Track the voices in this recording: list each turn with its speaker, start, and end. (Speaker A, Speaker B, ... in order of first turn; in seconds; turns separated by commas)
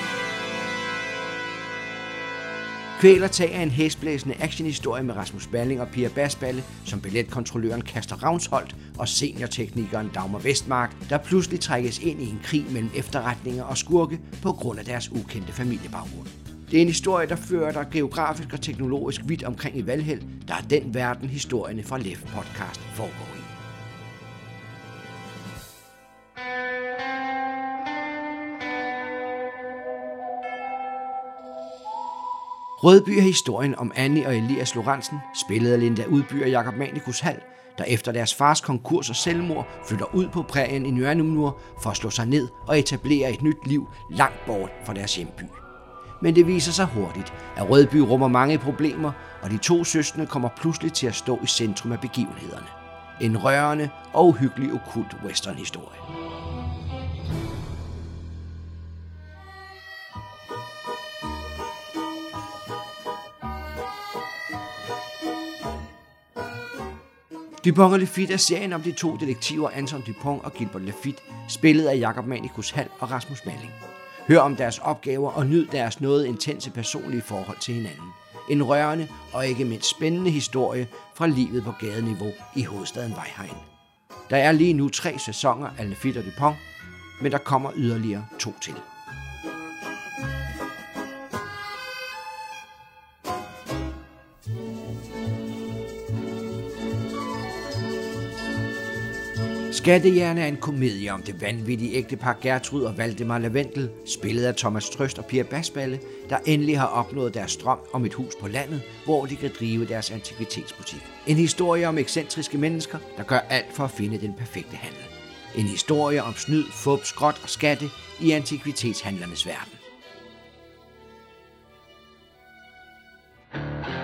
Speaker A: 3.0-23.5, Speaker A: 32.8-45.6, Speaker A: 46.2-56.0, Speaker A: 67.6-83.7, Speaker A: 84.3-86.6, Speaker A: 87.2-88.8, Speaker A: 99.7-119.8